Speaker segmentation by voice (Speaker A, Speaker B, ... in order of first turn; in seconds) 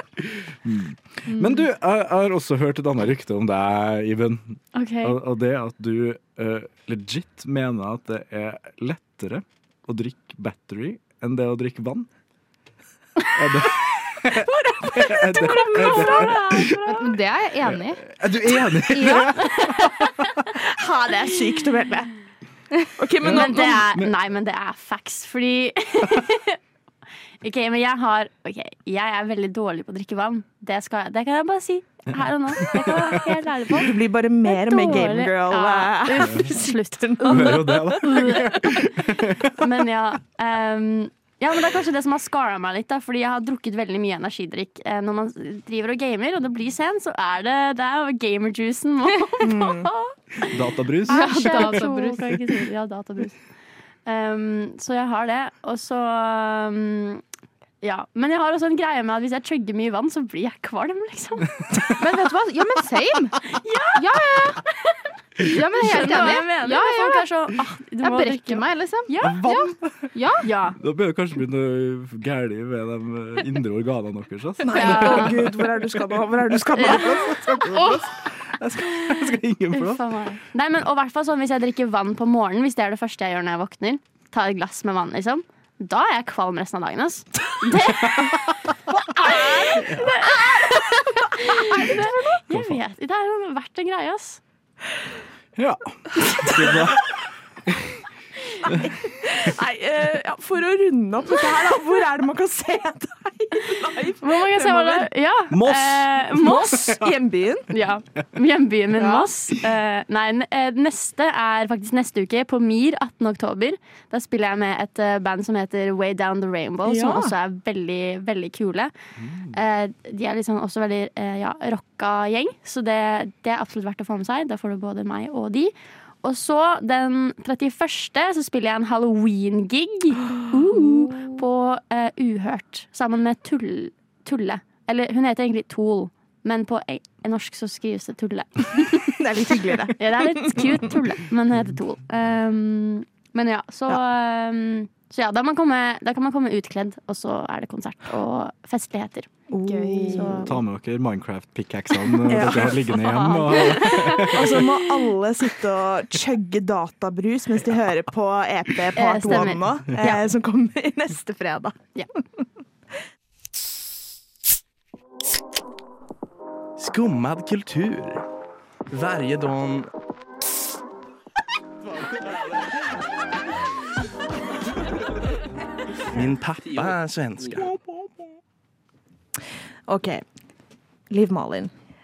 Speaker A: 0.2-12.1, 13.3-17.1, 17.6-20.4, 23.2-24.1, 32.5-33.2, 36.2-36.5, 37.2-39.7, 50.5-51.9, 69.2-70.1, 70.8-80.0, 87.8-88.5, 89.8-90.1, 92.5-92.8, 95.6-98.0, 98.7-98.9, 105.5-107.2, 119.2-119.5, 150.4-154.7
Speaker B: 4.7-5.2, 15.7-16.9, 19.5-19.9, 23.2-26.6, 27.4-33.9, 34.5-38.8, 39.6-50.5, 51.1-53.4, 54.1-57.2, 57.8-61.7, 63.6-64.0, 65.8-69.4, 70.4-70.8, 74.7-75.4, 76.8-77.9, 79.7-88.3, 89.1-94.4, 104.2-106.8, 107.7-118.9, 119.5-139.1, 140.0-150.6, 152.4-154.6, 159.0-160.2
Speaker C: 14.4-16.6, 20.6-22.1, 23.0-23.9, 33.8-38.0, 49.4-49.9, 74.6-77.8, 89.3-89.8, 91.8-92.1, 98.7-105.1, 106.3-107.7, 109.0-109.3, 116.8-117.3, 139.1-140.9, 149.5-150.5, 152.3-152.9, 153.9-161.8, 179.9-180.2, 181.1-181.7
Speaker D: 16.9-18.1, 18.9-19.4, 51.1-52.4, 62.0-63.4, 64.0-64.6, 65.5-67.3, 68.0-70.4
Speaker E: 166.8-168.2, 168.9-169.9, 176.1-177.7